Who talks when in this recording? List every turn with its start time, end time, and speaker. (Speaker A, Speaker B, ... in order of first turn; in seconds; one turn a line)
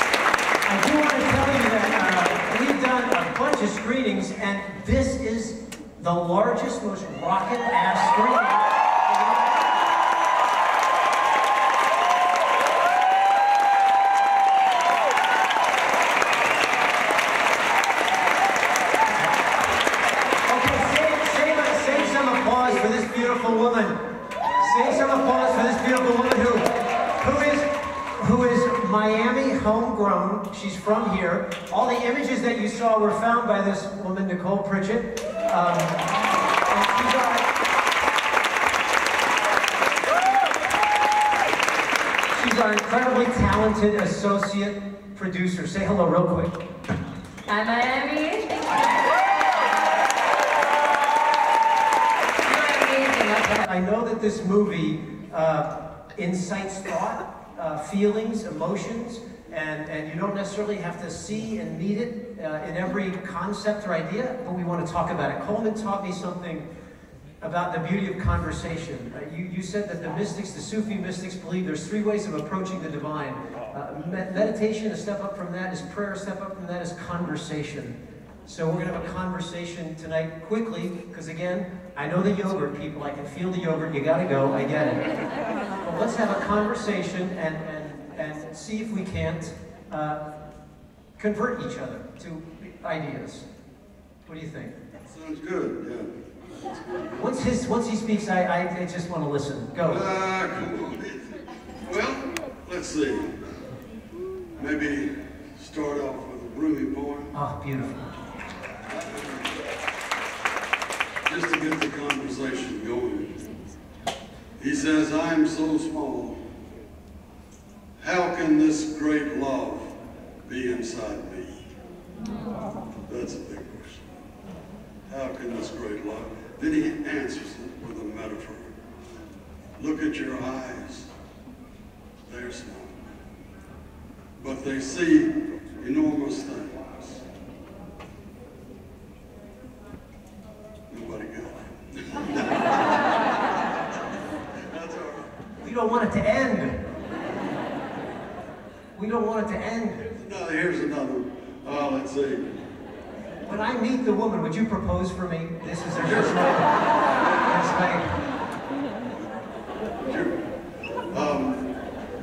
Speaker A: 0.6-9.2
Speaker A: 20.4-37.5
Speaker A: 42.3-46.5
Speaker B: 47.5-49.9
Speaker B: 52.4-53.5
Speaker A: 53.3-66.6
Speaker A: 67.4-85.1
Speaker A: 85.8-90.2
Speaker A: 91.2-93.5
Speaker A: 94.2-94.7
Speaker C: 95.0-97.2
Speaker A: 97.2-100.1
Speaker C: 99.9-103.4
Speaker C: 104.6-107.3
Speaker A: 107.3-108.1
Speaker C: 108.9-109.5
Speaker C: 111.2-113.4
Speaker C: 114.6-116.4
Speaker C: 118.0-119.9
Speaker C: 120.5-121.6
Speaker C: 123.1-124.0
Speaker C: 125.1-128.7
Speaker C: 129.8-131.1
Speaker C: 132.2-133.1
Speaker C: 134.3-137.2
Speaker C: 140.9-142.9
Speaker C: 144.7-145.3
Speaker A: 145.6-146.9
Speaker A: 148.9-150.1
Speaker C: 150.2-152.5
Speaker A: 153.4-158.1
Speaker C: 160.0-160.4
Speaker C: 161.1-161.7